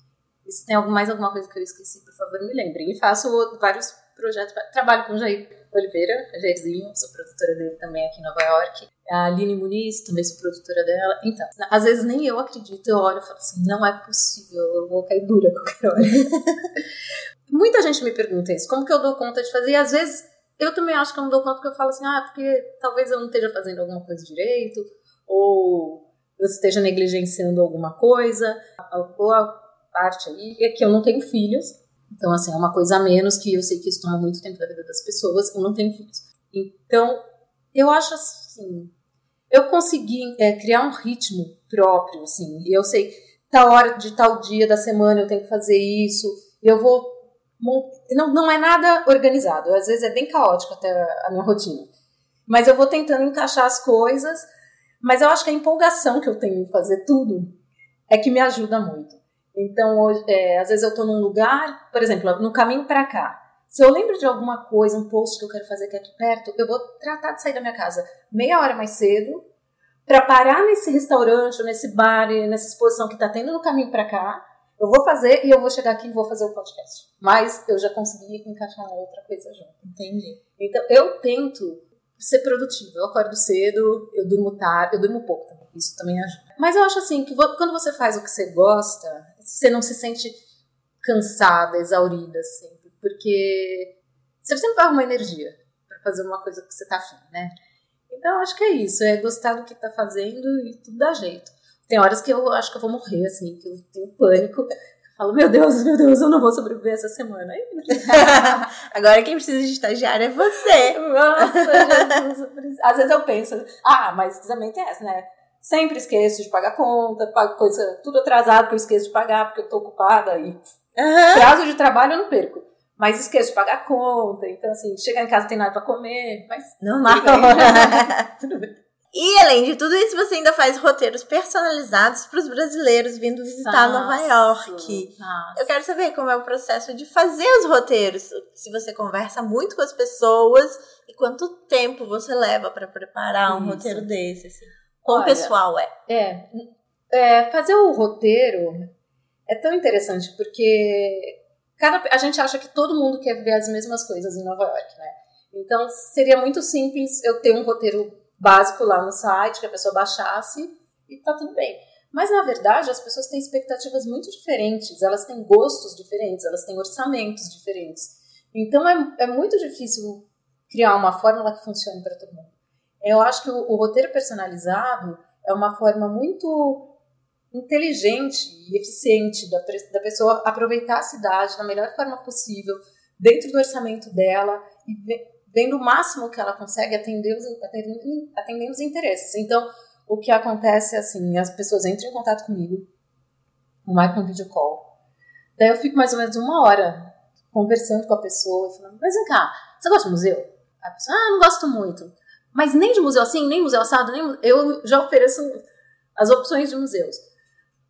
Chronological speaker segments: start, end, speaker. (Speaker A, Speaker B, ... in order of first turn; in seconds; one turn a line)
Speaker A: 0.4-16.8
Speaker A: 17.5-37.2
Speaker A: 37.7-38.9
Speaker A: 39.5-51.9
Speaker A: 52.5-54.4
Speaker A: 55.0-57.5
Speaker A: 58.1-69.4
Speaker A: 70.0-79.8
Speaker B: 79.8-80.4
Speaker A: 80.6-90.4
Speaker A: 91.0-93.9
Speaker A: 94.4-97.5
Speaker A: 98.1-108.7
Speaker B: 107.9-112.1
Speaker A: 110.8-120.6
Speaker B: 121.0-121.5
Speaker A: 121.3-128.7
Speaker B: 126.8-128.3
Speaker B: 129.1-145.9
Speaker A: 133.5-135.7
Speaker A: 143.5-144.1
Speaker A: 145.1-145.5
Speaker A: 146.1-148.9
Speaker A: 149.5-176.9
Speaker A: 177.5-192.8
Speaker A: 193.8-194.8
Speaker A: 195.6-205.6
Speaker A: 206.2-207.2